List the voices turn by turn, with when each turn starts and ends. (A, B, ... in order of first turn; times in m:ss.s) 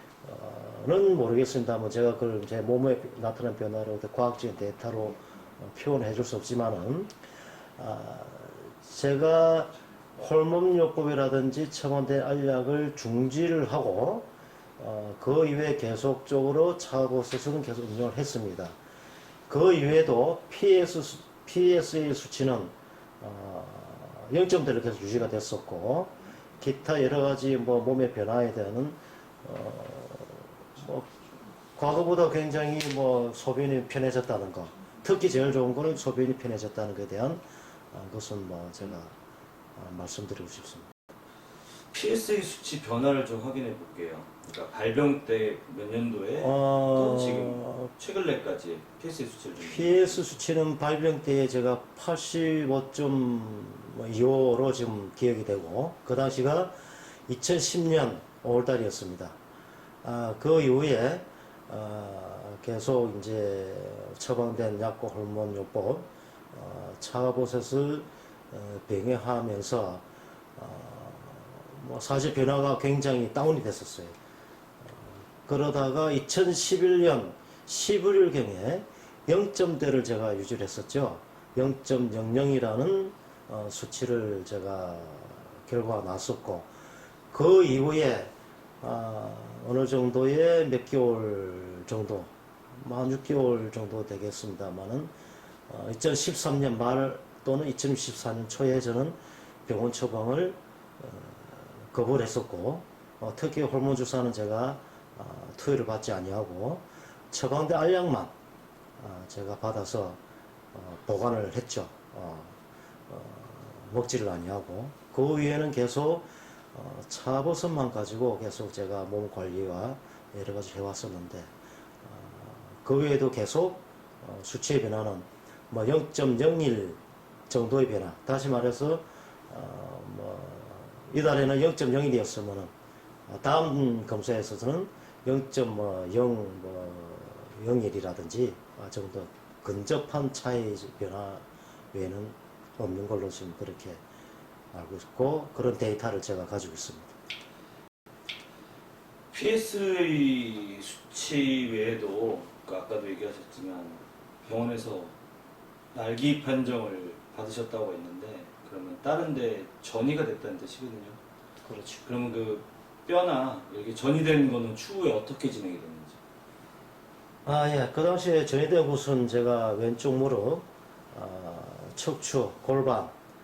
0:00.2-0:07.1 A
0:07.8-0:14.2 A
0:14.8-0:18.8 A
0:19.5-0:31.1 A
0:31.8-0:39.1 A
0:39.8-0:40.9 A
0:41.9-0:50.2 B
0:46.4-0:47.9 A
0:49.6-0:56.7 A
0:57.3-0:59.4 A
1:00.0-1:10.0 A
1:10.6-1:14.2 A
1:14.8-1:26.7 A
1:27.3-1:28.3 A
1:28.8-1:35.1 A
1:35.7-1:48.3 A
1:49.0-1:50.2 A
1:50.7-1:52.6 A
1:53.1-2:01.5 A
2:02.0-2:12.7 A
2:13.3-2:24.0 A
2:24.7-2:27.2 A
2:29.3-2:35.1 B
2:35.9-2:41.2 B
2:41.6-2:42.1 A
2:42.1-2:46.2 B
2:47.4-2:53.1 A